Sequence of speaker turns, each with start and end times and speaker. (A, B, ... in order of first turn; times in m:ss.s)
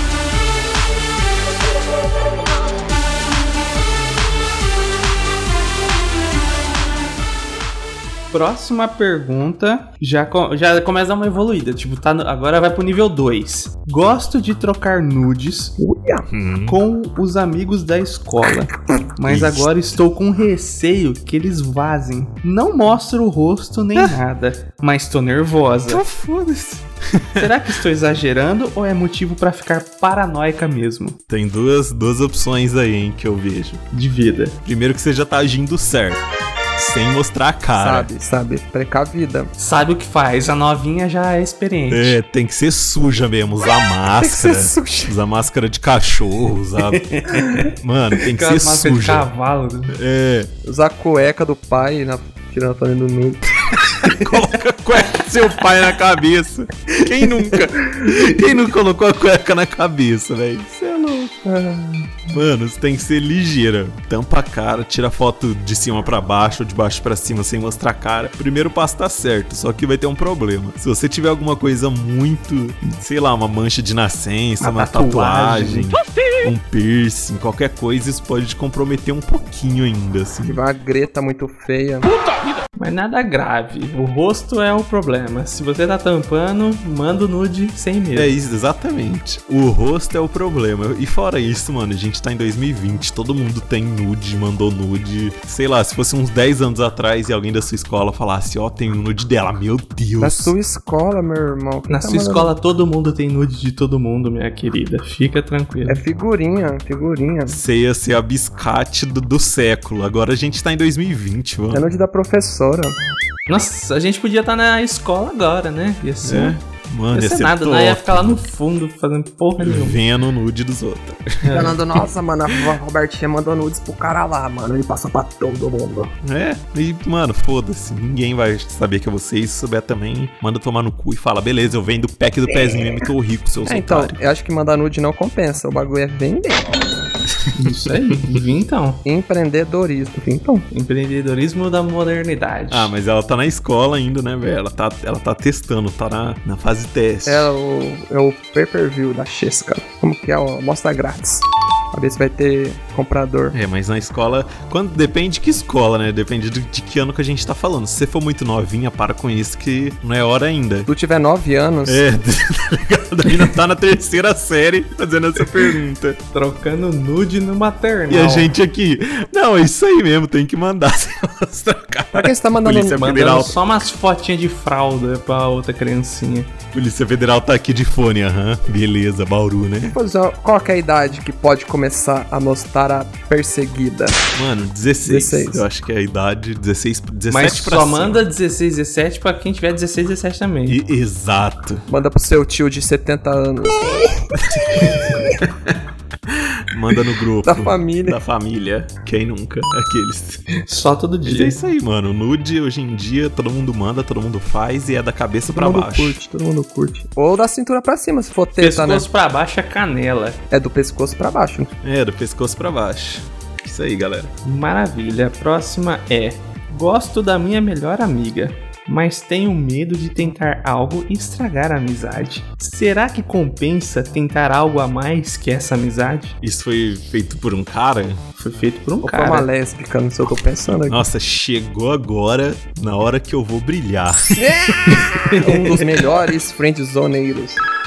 0:08.3-0:15.7 A
0:15.8-0:16.3 B
0:16.3-0:16.8 C
0:16.7-0:26.0 A
0:19.2-0:19.7 C
0:25.9-0:27.5 C
0:27.4-0:31.2 A
0:31.3-0:33.8 C
0:33.9-0:34.6 A
0:34.6-0:36.2 C
0:36.8-0:38.1 C
0:37.8-0:39.5 B
0:39.6-0:42.2 A
0:41.9-0:47.1 C
0:44.2-0:45.2 B
0:46.9-0:50.0 A
0:47.7-0:49.3 C
0:49.9-0:50.5 C
0:50.6-0:53.4 B
0:53.8-1:01.3 C
1:01.4-1:02.4 B
1:02.3-1:20.6 C
1:14.6-1:16.0 A
1:20.4-1:22.1 B
1:22.8-1:28.3 A
1:28.2-1:40.5 C
1:40.2-1:42.5 B
1:41.9-1:46.0 A
1:45.9-1:47.6 B
1:47.5-1:51.9 C
1:51.7-1:53.0 B
1:53.5-1:56.6 A
1:56.2-1:58.4 C
1:57.1-2:00.0 A
1:59.6-2:01.8 C
2:01.4-2:01.7 A
2:01.5-2:06.1 B
2:06.2-2:14.2 C
2:13.6-2:16.8 B
2:17.6-2:19.0 A
2:19.0-2:20.7 B
2:20.7-2:22.9 A
2:22.7-2:27.5 C
2:27.3-2:33.6 B
2:33.5-2:40.9 C
2:40.9-2:42.0 B
2:41.9-2:46.2 C
2:46.3-2:48.5 A
2:48.1-2:53.5 C
2:52.1-2:53.1 B
2:53.0-2:56.5 A
2:56.7-3:00.0 C
2:59.9-3:04.2 B
3:04.4-3:08.2 C
3:05.0-3:05.6 B
3:07.3-3:10.8 A
3:10.7-3:11.8 C
3:11.9-3:14.4 B
3:14.5-3:14.9 C
3:16.3-3:20.5 C
3:17.4-3:18.2 B
3:20.6-3:21.6 A
3:21.2-3:26.2 C
3:25.5-3:29.1 B
3:28.6-3:30.4 A
3:30.5-3:31.7 B
3:31.8-3:34.3 C
3:34.4-3:46.4 A
3:46.4-3:48.2 C
3:48.4-3:49.5 A
3:49.0-3:51.1 B
3:50.8-3:55.0 C
3:54.3-3:57.6 B
3:55.2-3:55.8 A